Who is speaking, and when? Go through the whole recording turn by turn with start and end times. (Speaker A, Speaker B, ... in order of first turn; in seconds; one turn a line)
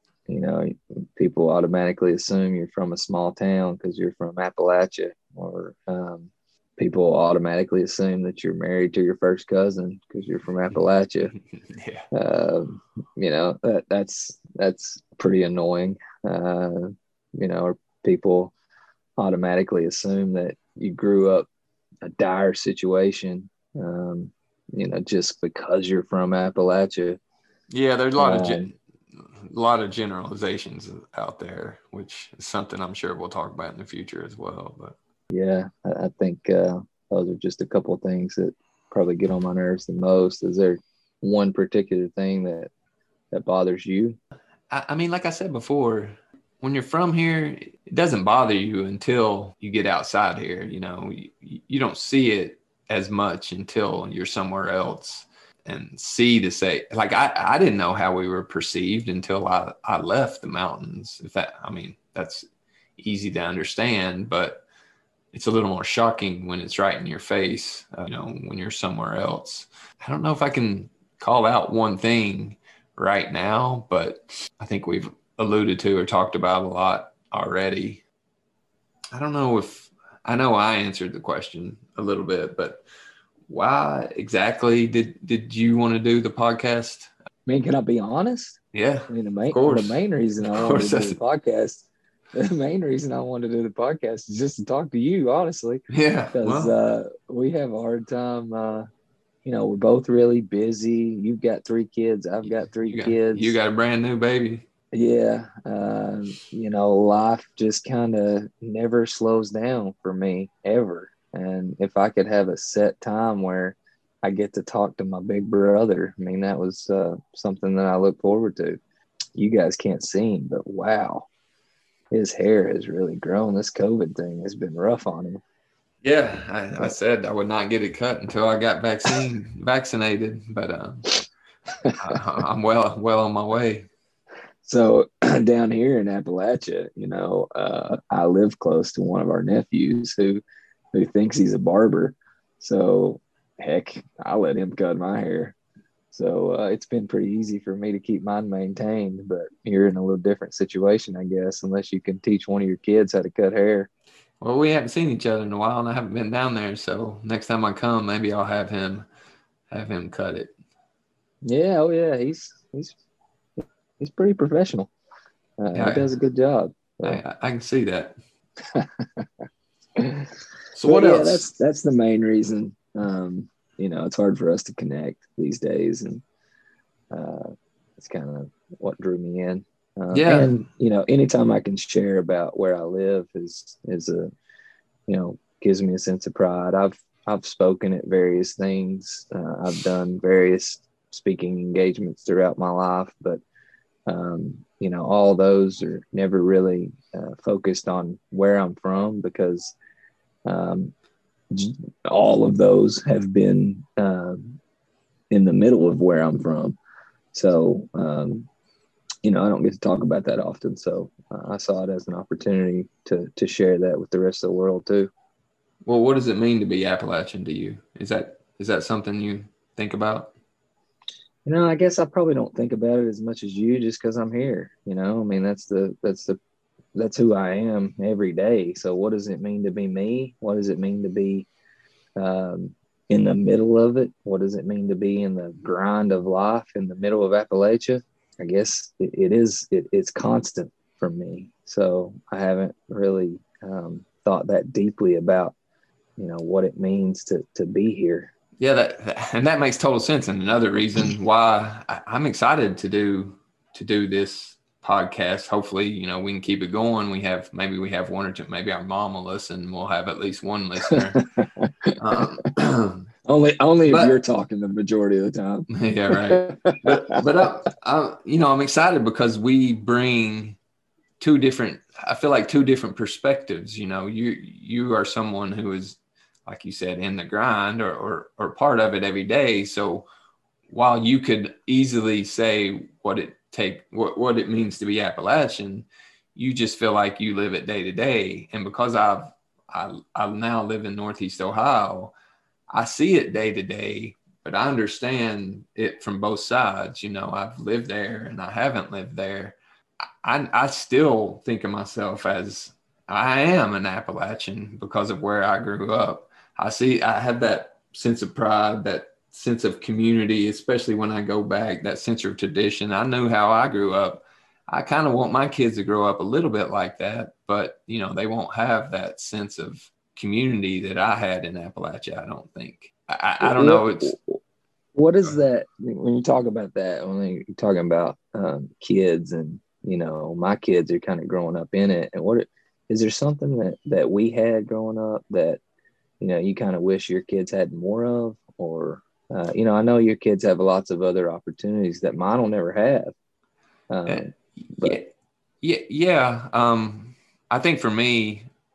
Speaker A: 0.3-11.3
Speaker B: 11.6-12.1
Speaker A: 12.1-18.5
Speaker A: 19.2-21.5
Speaker A: 22.0-27.2
Speaker B: 27.7-35.0
Speaker A: 28.2-28.7
Speaker A: 35.3-42.7
Speaker A: 43.3-44.2
Speaker B: 44.7-62.5
Speaker B: 63.0-64.6
Speaker B: 65.3-78.0
Speaker B: 79.1-82.8
Speaker B: 83.5-87.1
Speaker A: 87.5-98.9
Speaker B: 88.7-91.2
Speaker B: 95.9-96.7
Speaker A: 99.4-103.5
Speaker B: 102.9-104.6
Speaker A: 104.9-118.8
Speaker A: 119.3-121.3
Speaker A: 122.1-125.4
Speaker B: 126.0-131.1
Speaker B: 132.0-133.9
Speaker A: 134.6-140.4
Speaker A: 140.9-145.5
Speaker A: 146.1-153.9
Speaker B: 154.4-159.1
Speaker B: 159.7-160.5
Speaker A: 161.4-162.9
Speaker A: 163.6-164.9
Speaker A: 165.6-167.2
Speaker B: 165.7-166.1
Speaker B: 167.0-168.2
Speaker A: 168.7-169.2
Speaker A: 170.0-170.3
Speaker B: 170.7-171.4
Speaker A: 170.8-176.2
Speaker A: 177.1-184.3
Speaker B: 180.1-180.6
Speaker A: 185.1-193.4
Speaker A: 194.1-199.7
Speaker A: 200.5-200.9
Speaker A: 201.5-204.6
Speaker A: 205.3-206.8
Speaker A: 207.3-208.5
Speaker A: 209.2-215.1
Speaker B: 215.8-220.3
Speaker A: 221.4-226.4
Speaker A: 226.9-231.5
Speaker A: 232.2-245.5
Speaker A: 246.2-248.3
Speaker B: 248.6-261.2
Speaker A: 260.9-262.3
Speaker B: 262.0-263.1
Speaker A: 263.3-267.2
Speaker B: 263.9-264.1
Speaker B: 265.7-270.6
Speaker B: 271.2-280.1
Speaker B: 280.7-292.1
Speaker B: 292.7-299.6
Speaker B: 300.2-324.2
Speaker A: 323.4-324.4
Speaker A: 324.9-335.6
Speaker A: 336.2-343.1
Speaker A: 343.9-345.0
Speaker B: 344.1-348.5